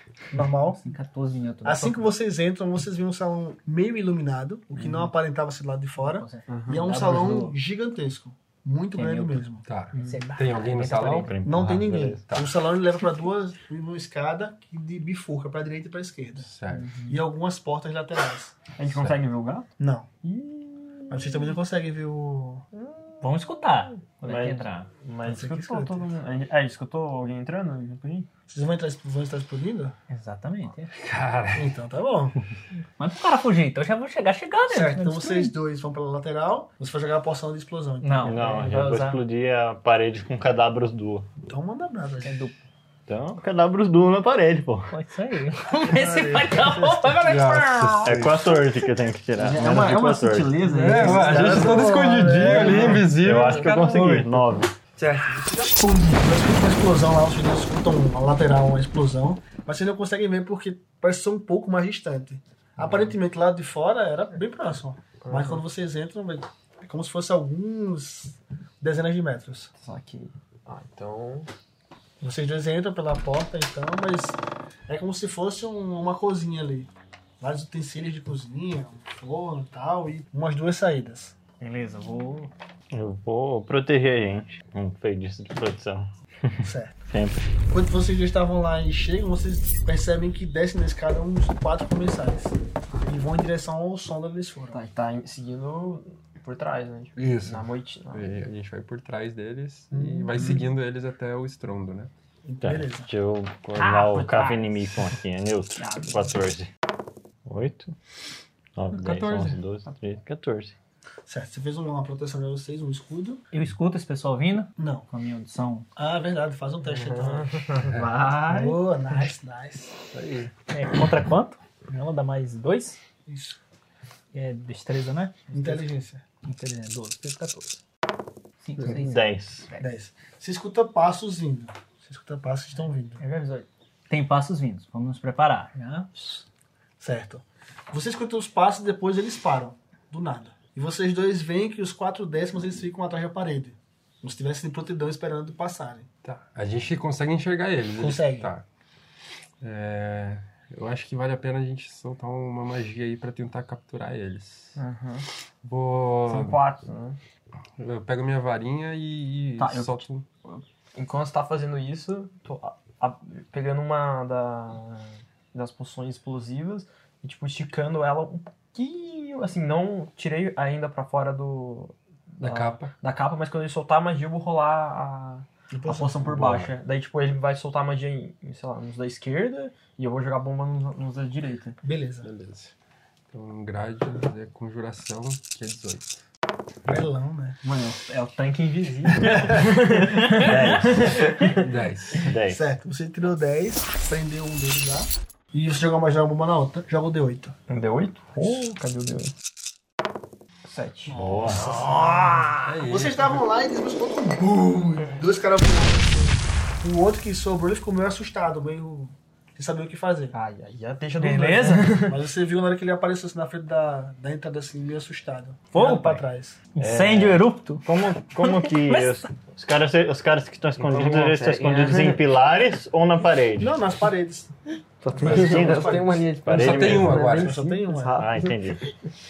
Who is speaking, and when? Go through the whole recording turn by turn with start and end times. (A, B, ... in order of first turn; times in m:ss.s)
0:00.3-0:00.8 A
0:00.8-0:02.1 B
0:01.6-0:09.6 A
0:06.0-0:07.6 B
0:06.5-0:06.9 C
0:08.9-0:09.4 B
0:09.6-0:11.5 D
0:09.9-0:11.3 B
0:11.1-0:12.2 E
0:11.4-0:16.5 A
0:12.3-0:12.6 D
0:16.4-0:17.0 D
0:17.0-0:18.6 A
0:18.8-0:19.7 C
0:18.9-0:19.1 D
0:19.8-0:20.1 A
0:20.2-0:21.5 C
0:21.1-0:22.6 A
0:22.7-0:28.3 C
0:23.2-0:24.9 B
0:25.2-0:26.1 A
0:28.5-0:30.0 A
0:30.1-0:30.9 B
0:30.9-0:31.7 D
0:31.5-0:32.4 A
0:33.0-0:35.5 B
0:34.7-0:38.4 A
0:38.0-0:39.2 B
0:38.2-0:41.3 E
0:41.5-0:42.4 A
0:42.2-0:42.5 B
0:43.1-0:44.9 E
0:44.9-0:48.2 B
0:45.8-0:47.2 A
0:47.1-0:48.5 D
0:48.0-0:50.6 E
0:49.5-0:51.5 C
0:50.6-0:53.1 A
0:50.6-0:51.2 B
0:50.7-0:53.8 D
0:52.5-0:54.2 C
0:53.0-0:54.7 E
0:53.9-0:54.2 B
0:55.0-0:55.5 C
0:55.5-1:09.7 A
1:05.2-1:05.6 C
1:09.8-1:11.5 C
1:12.2-1:21.3 A
1:21.6-1:22.5 B
1:22.9-1:27.4 E
1:26.6-1:27.0 A
1:27.7-1:34.8 A
1:34.7-1:38.3 C
1:37.2-1:42.1 D
1:39.9-1:40.6 A
1:42.4-1:43.1 A
1:42.6-1:46.7 E
1:43.8-1:44.7 B
1:45.8-1:46.2 B
1:47.4-1:47.9 E
1:48.8-1:50.7 E
1:49.0-1:49.6 C
1:51.3-1:53.4 A
1:53.5-1:55.9 B
1:54.8-1:55.0 A
1:56.0-1:57.7 A
1:56.8-1:58.7 C
1:57.9-1:58.1 D
1:58.5-2:00.0 A
1:58.5-1:58.8 B
2:00.1-2:00.5 D
2:00.7-2:03.0 B
2:03.2-2:03.6 A
2:04.3-2:05.5 B
2:05.5-2:06.2 A
2:06.4-2:07.8 B
2:08.6-2:09.9 B
2:08.8-2:09.7 E
2:09.8-2:13.2 A
2:13.2-2:16.1 B
2:17.0-2:26.1 A
2:26.2-2:28.6 D
2:27.9-2:28.5 A
2:29.6-2:34.8 D
2:34.8-2:35.3 C
2:35.6-2:36.6 D
2:36.3-2:37.2 C
2:37.8-2:40.3 D
2:39.6-2:39.8 C
2:40.9-3:01.8 C
2:52.4-2:52.9 D
2:55.7-2:56.1 A
2:56.3-2:56.7 E
3:01.8-3:02.3 A
3:02.2-3:02.7 D
3:03.3-3:06.2 D
3:06.8-3:07.6 A
3:07.6-3:11.6 C
3:09.2-3:09.6 A
3:10.2-3:10.6 B
3:10.3-3:11.2 E
3:11.5-3:12.3 D
3:12.2-3:12.6 E
3:12.4-3:17.5 A
3:17.7-3:19.3 C
3:20.7-3:21.2 C
3:21.1-3:21.6 B
3:21.2-3:21.8 E
3:21.5-3:30.3 A
3:22.6-3:23.4 D
3:30.3-3:32.2 C
3:31.2-3:32.0 B
3:32.0-3:36.6 A
3:35.7-3:37.9 B
3:36.8-3:43.8 E
3:38.4-3:39.2 B
3:40.8-3:42.2 C
3:43.6-3:44.5 A
3:45.0-3:48.9 C
3:45.1-3:46.4 A
3:45.2-3:47.4 E
3:46.4-3:47.6 D
3:47.2-3:48.2 A
3:48.1-3:48.8 E